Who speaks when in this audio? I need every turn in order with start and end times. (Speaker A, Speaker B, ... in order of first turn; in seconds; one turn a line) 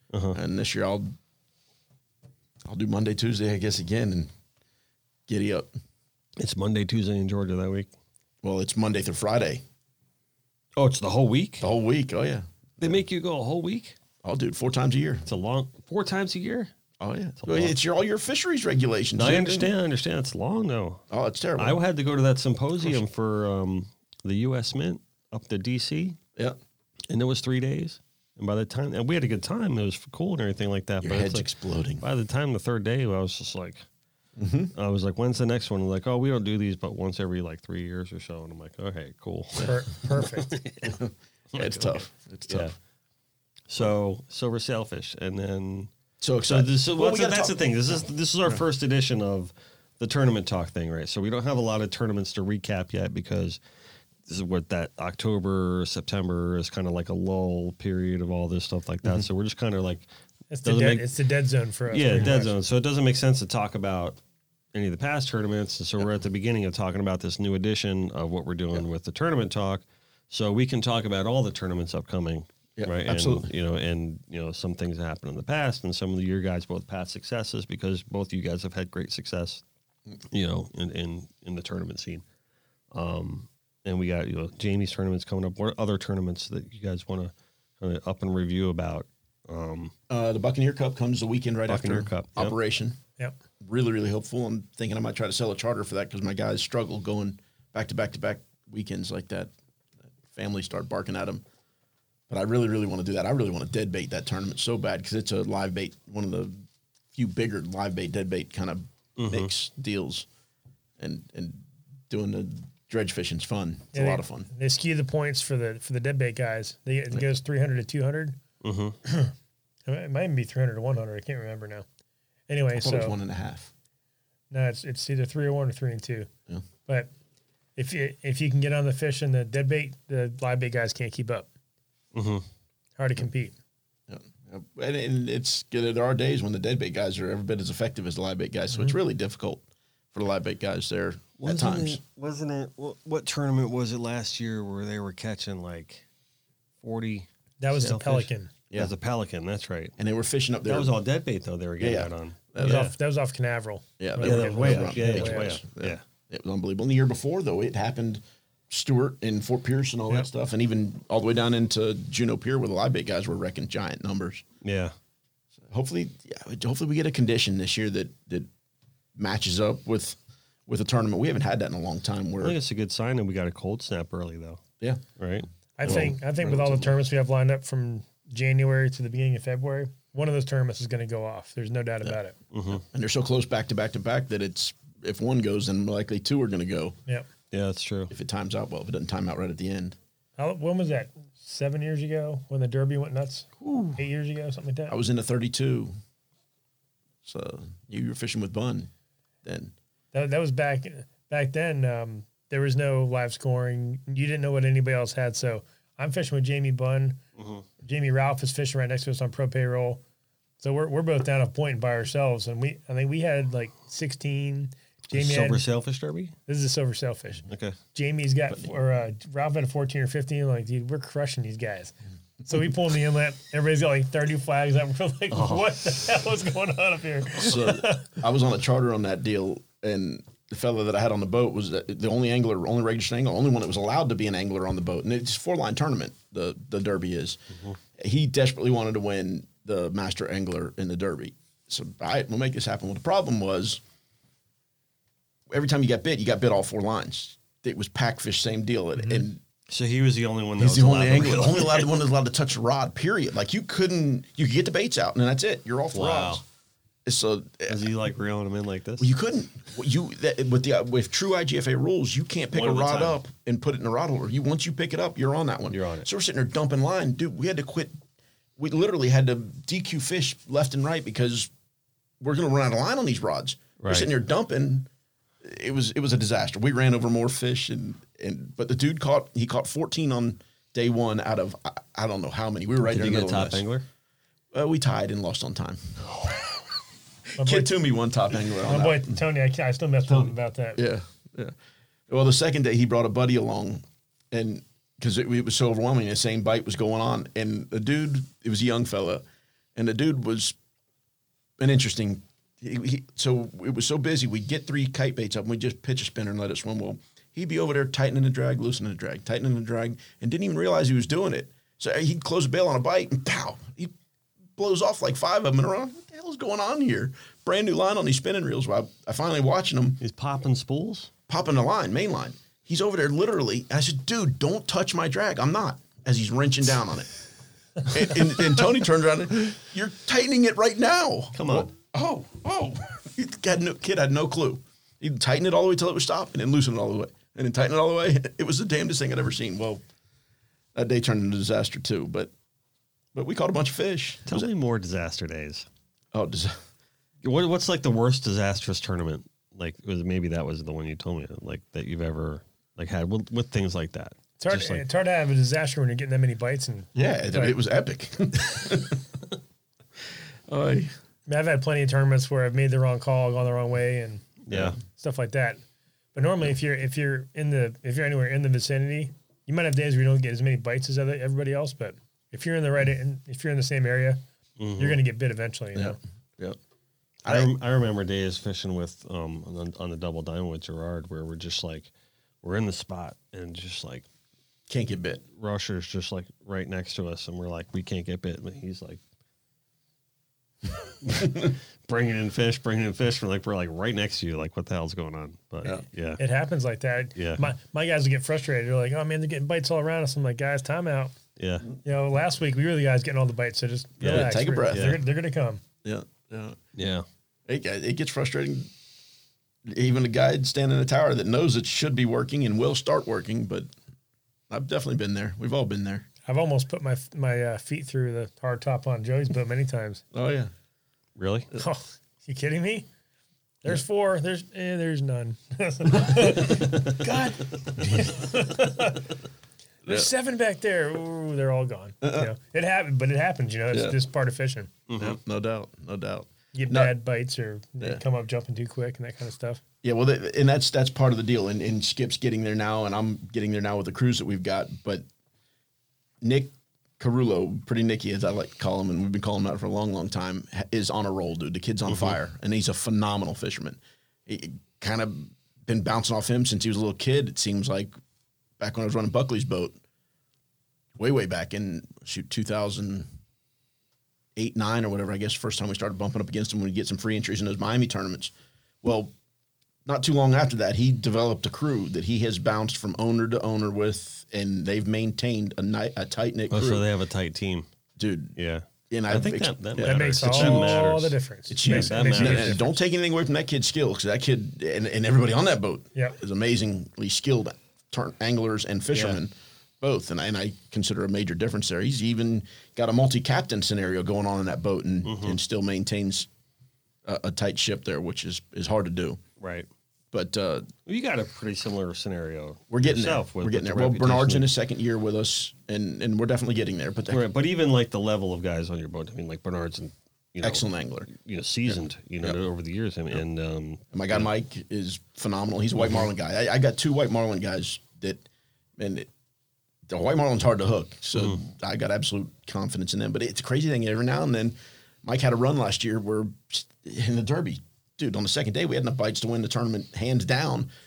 Speaker A: 0.1-0.4
Speaker B: 0.3-1.1
Speaker B: 2.7-4.3
Speaker B: 5.3-5.7
Speaker A: 6.4-7.9
Speaker B: 8.4-9.6
Speaker A: 10.8-11.7
Speaker B: 11.6-13.0
Speaker A: 12.8-14.0
Speaker B: 14.2-15.2
Speaker A: 15.2-16.7
Speaker B: 17.0-19.7
Speaker A: 17.4-17.8
Speaker A: 19.2-21.0
Speaker B: 21.1-21.8
Speaker A: 21.6-26.2
Speaker A: 27.1-31.5
Speaker B: 31.0-32.0
Speaker A: 32.0-33.8
Speaker B: 34.4-34.7
Speaker A: 34.7-41.0
Speaker C: 39.6-40.5
Speaker B: 40.8-42.7
Speaker A: 41.5-42.7
Speaker A: 43.7-45.9
Speaker B: 46.2-47.6
Speaker A: 46.4-53.6
Speaker A: 54.3-60.1
Speaker C: 60.5-62.5
Speaker A: 60.6-61.0
Speaker A: 61.9-64.2
Speaker A: 64.7-79.6
Speaker B: 72.8-73.5
Speaker A: 80.3-82.2
Speaker A: 82.9-89.9
Speaker B: 90.1-93.0
Speaker A: 91.7-92.5
Speaker B: 93.6-99.5
Speaker B: 100.3-101.4
Speaker B: 102.3-106.6
Speaker B: 107.1-110.3
Speaker A: 109.2-109.5
Speaker B: 111.0-114.5
Speaker C: 113.9-118.4
Speaker A: 118.6-119.0
Speaker C: 119.0-119.3
Speaker C: 119.9-121.9
Speaker C: 122.5-123.2
Speaker B: 122.8-123.7
Speaker C: 124.5-126.3
Speaker C: 127.8-131.5
Speaker A: 132.1-132.4
Speaker C: 133.0-133.5
Speaker B: 134.1-139.6
Speaker B: 140.1-142.0
Speaker A: 141.4-146.0
Speaker A: 146.8-149.9
Speaker C: 147.6-148.5
Speaker B: 150.0-150.9
Speaker A: 150.7-152.9
Speaker B: 151.8-152.9
Speaker C: 152.6-155.6
Speaker B: 154.0-164.4
Speaker A: 154.2-156.0
Speaker A: 164.6-164.9
Speaker B: 165.7-168.5
Speaker B: 169.2-172.6
Speaker A: 172.4-174.6
Speaker A: 175.2-176.1
Speaker C: 175.8-182.4
Speaker B: 175.8-176.9
Speaker A: 182.5-182.8
Speaker B: 182.8-187.0
Speaker A: 187.5-188.1
Speaker B: 188.1-189.9
Speaker C: 190.4-194.9
Speaker B: 193.6-194.0
Speaker B: 194.9-195.9
Speaker B: 197.2-198.9
Speaker B: 199.4-199.7
Speaker C: 200.1-207.2
Speaker A: 207.4-207.6
Speaker C: 207.8-210.0
Speaker C: 210.6-215.6
Speaker A: 215.1-216.3
Speaker C: 216.5-217.4
Speaker A: 217.5-217.8
Speaker C: 217.9-221.9
Speaker C: 222.4-228.1
Speaker A: 225.3-225.7
Speaker B: 227.4-237.4
Speaker B: 238.0-243.8
Speaker B: 245.5-249.4
Speaker C: 249.0-249.2
Speaker A: 249.7-252.0
Speaker B: 250.6-256.4
Speaker A: 255.9-256.4
Speaker B: 257.1-257.8
Speaker A: 257.7-259.1
Speaker B: 259.0-267.9
Speaker A: 262.5-263.2
Speaker A: 265.7-266.1
Speaker B: 268.6-271.5
Speaker B: 272.2-274.9
Speaker A: 273.8-274.1
Speaker B: 275.4-283.6
Speaker A: 282.9-283.9
Speaker B: 284.5-286.6
Speaker C: 287.4-287.7
Speaker B: 287.4-289.2
Speaker C: 288.6-290.8
Speaker B: 290.1-291.5
Speaker B: 292.1-299.2
Speaker B: 299.8-300.5
Speaker B: 301.6-313.9
Speaker B: 314.6-320.0
Speaker A: 320.0-321.1
Speaker B: 321.3-327.1
Speaker B: 327.8-339.8
Speaker A: 331.4-331.7
Speaker B: 340.7-342.3
Speaker B: 343.1-344.5
Speaker A: 344.3-345.6
Speaker B: 346.1-346.6
Speaker A: 347.2-354.8
Speaker C: 354.4-357.6
Speaker B: 356.9-359.0
Speaker B: 360.5-360.9
Speaker C: 361.3-364.3
Speaker A: 364.5-364.8
Speaker B: 364.5-364.8
Speaker C: 364.9-365.6
Speaker C: 366.1-374.2
Speaker A: 374.6-375.0
Speaker C: 374.8-376.0
Speaker B: 375.7-376.6
Speaker A: 377.2-381.9
Speaker A: 382.4-384.1
Speaker B: 384.7-385.2
Speaker A: 385.4-389.0
Speaker A: 391.0-396.2
Speaker B: 391.1-391.4
Speaker C: 396.2-401.1
Speaker A: 397.1-397.4
Speaker A: 401.4-401.6
Speaker C: 401.8-405.6
Speaker A: 404.0-405.0
Speaker B: 404.0-405.0
Speaker B: 405.8-406.6
Speaker A: 406.8-407.1
Speaker B: 407.5-408.7
Speaker B: 409.6-413.7
Speaker B: 414.5-416.1
Speaker C: 416.2-420.0
Speaker B: 420.1-420.5
Speaker A: 421.2-421.5
Speaker C: 421.5-422.9
Speaker C: 423.6-429.1
Speaker C: 429.9-434.7
Speaker B: 432.0-432.3
Speaker A: 434.9-435.2
Speaker B: 435.0-436.9
Speaker C: 436.5-439.6
Speaker B: 439.8-445.0
Speaker B: 446.2-457.9
Speaker A: 451.9-452.1
Speaker B: 458.6-459.8
Speaker B: 461.0-463.1
Speaker B: 464.4-468.3
Speaker B: 468.8-469.1
Speaker B: 469.9-476.8
Speaker A: 476.5-477.6
Speaker B: 478.0-478.4
Speaker A: 478.4-482.7
Speaker B: 478.9-480.9
Speaker C: 479.8-482.7
Speaker B: 481.5-496.3
Speaker A: 488.9-489.2
Speaker A: 495.0-495.4
Speaker B: 497.0-499.2
Speaker A: 499.4-499.7
Speaker B: 500.1-500.7
Speaker A: 500.9-504.5
Speaker B: 502.7-507.2
Speaker A: 507.1-514.3
Speaker B: 510.4-511.1
Speaker B: 511.7-512.4
Speaker B: 513.9-518.2
Speaker A: 515.8-516.1
Speaker B: 518.8-519.1
Speaker B: 519.9-530.7
Speaker A: 521.1-521.4